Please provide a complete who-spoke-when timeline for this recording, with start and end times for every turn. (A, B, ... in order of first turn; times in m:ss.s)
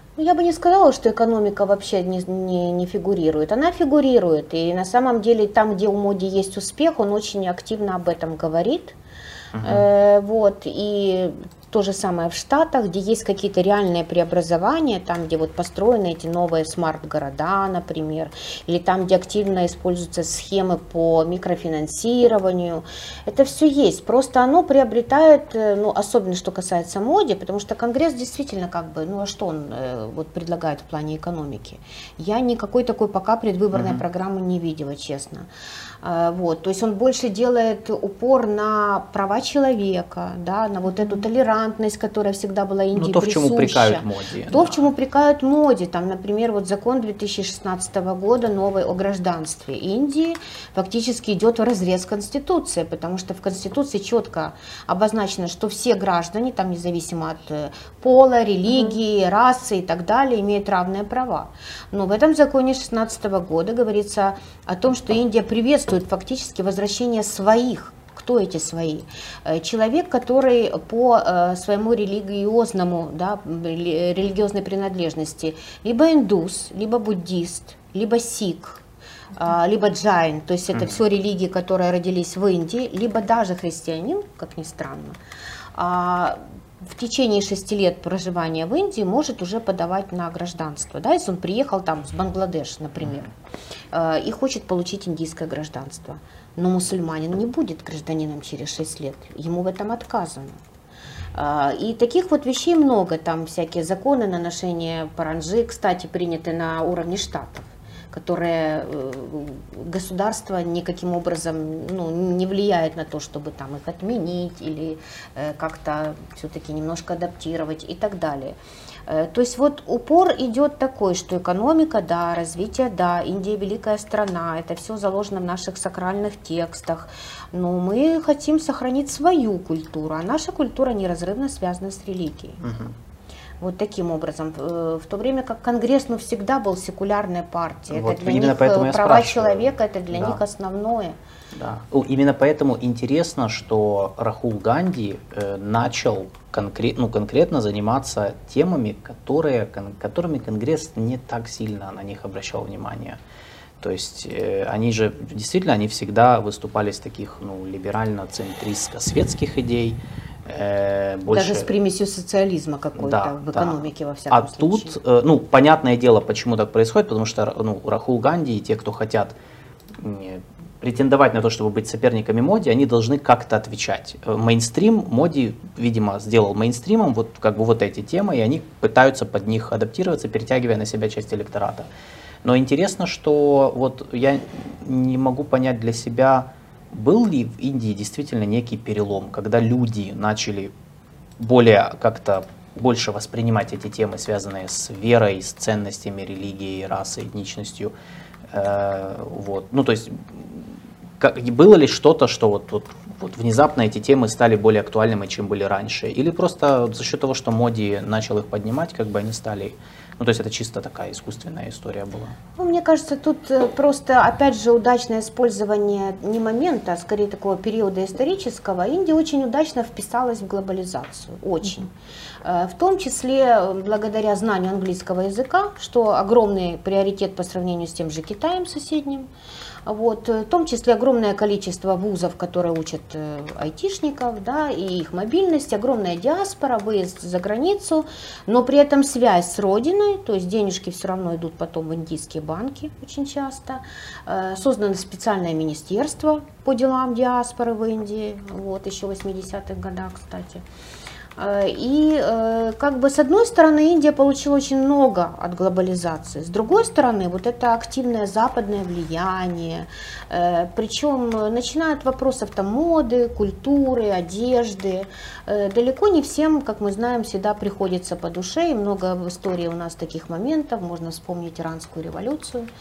0:00.2-0:09.0 A
0:09.5-0:09.9 B
0:09.6-0:35.5 A
0:33.7-0:34.0 B
0:36.0-1:18.8 A
0:43.0-0:44.8 B
1:19.4-1:25.2 A
1:25.8-1:33.3 A
1:33.9-1:40.6 A
1:41.4-2:12.6 A
2:12.6-2:12.9 B
2:13.6-2:21.2 A
2:17.9-2:20.4 B
2:21.5-2:33.2 B
2:33.8-2:41.7 B
2:41.3-2:45.0 A
2:43.0-2:49.4 B
2:50.0-3:01.9 B
3:02.4-3:10.7 B
3:11.4-3:17.9 B
3:18.5-3:32.4 B
3:32.6-3:41.9 A
3:42.4-3:49.3 A
3:49.9-4:10.6 A
4:11.4-4:32.7 A